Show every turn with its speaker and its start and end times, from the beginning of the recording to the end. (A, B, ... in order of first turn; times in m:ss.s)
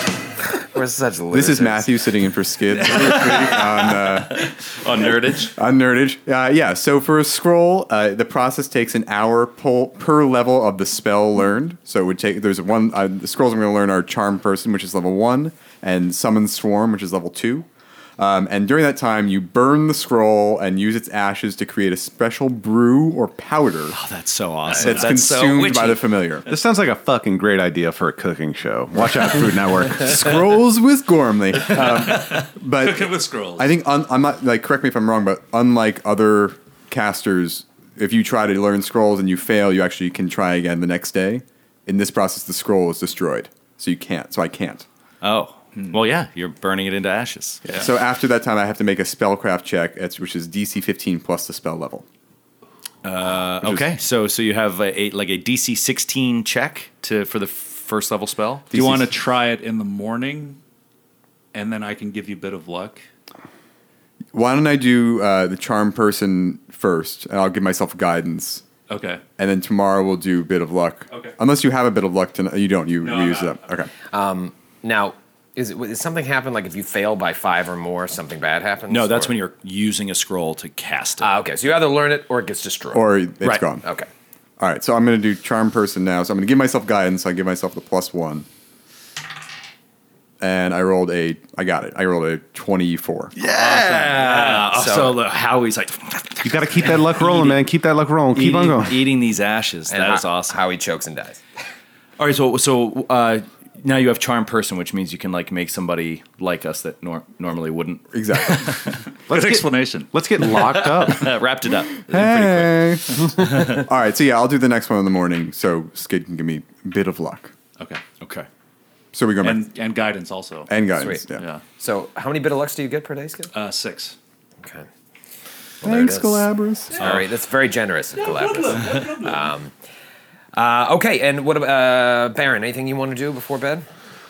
0:00.5-0:01.9 A
0:01.3-0:04.5 B
0:02.8-0:05.5 C
0:05.5-0:17.7 B
0:18.2-0:24.0 B
0:23.9-0:26.0 C
0:24.7-0:26.4 B
0:24.8-0:25.1 D
0:26.4-0:30.4 E
0:29.9-0:44.8 B
0:32.0-0:33.7 D
0:45.2-0:47.6 C
0:47.7-0:52.0 B
0:53.0-0:58.9 C
0:53.6-0:53.9 B
0:58.7-1:00.6 D
0:58.7-0:59.0 B
1:01.5-1:03.0 D
1:04.3-1:08.6 B
1:08.9-1:09.2 D
1:09.4-1:13.9 B
1:13.0-1:13.6 D
1:14.1-1:19.3 A
1:18.9-1:21.3 C
1:21.2-1:23.1 A
1:22.9-1:23.8 B
1:23.8-1:24.1 A
1:24.6-1:28.4 B
1:30.4-1:33.3 B
1:33.4-1:37.6 C
1:33.5-1:34.6 D
1:34.1-1:35.2 A
1:36.4-1:39.0 E
1:38.3-1:40.6 C
1:39.9-1:41.4 A
1:42.2-1:49.0 C
1:48.1-1:48.8 B
1:49.3-1:50.1 D
1:49.3-1:51.4 E
1:50.4-1:53.8 C
1:52.1-1:57.5 B
1:58.2-1:58.5 C
1:59.1-1:59.6 B
1:59.4-2:00.7 D
2:00.7-2:01.4 B
2:01.0-2:01.2 A
2:01.3-2:01.6 D
2:01.8-2:03.5 A
2:03.5-2:04.2 D
2:04.6-2:04.9 A
2:05.8-2:09.7 A
2:05.8-2:07.0 B
2:07.0-2:07.3 C
2:08.2-2:09.5 D
2:10.5-2:13.8 A